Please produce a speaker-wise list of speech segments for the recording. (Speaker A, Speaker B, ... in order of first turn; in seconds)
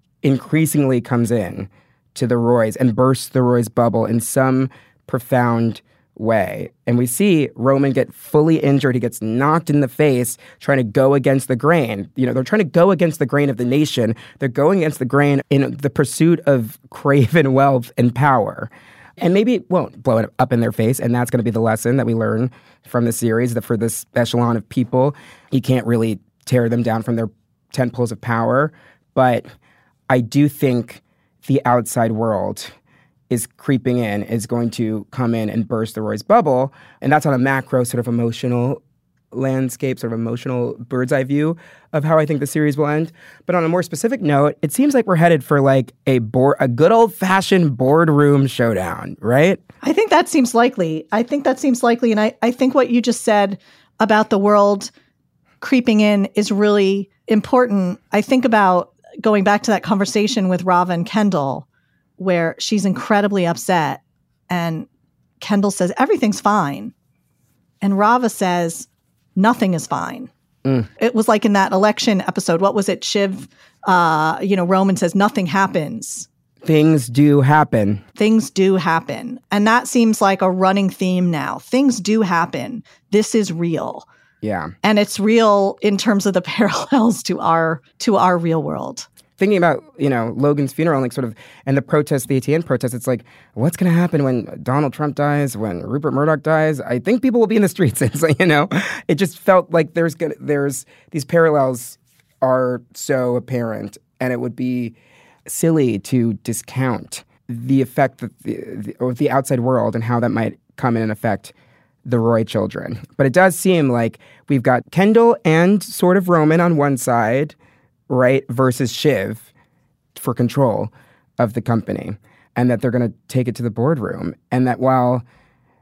Speaker A: 0.2-29.5, 30.1-32.8, 33.3-38.8, 39.3-49.6, 76.6-78.0, 84.4-84.7, 89.4-111.5, 112.0-117.6, 118.1-119.5, 120.2-125.2
Speaker B: 49.8-54.9, 55.6-61.7, 62.2-64.9, 65.4-66.9, 67.8-70.3, 71.0-76.3, 78.2-84.1, 84.8-89.1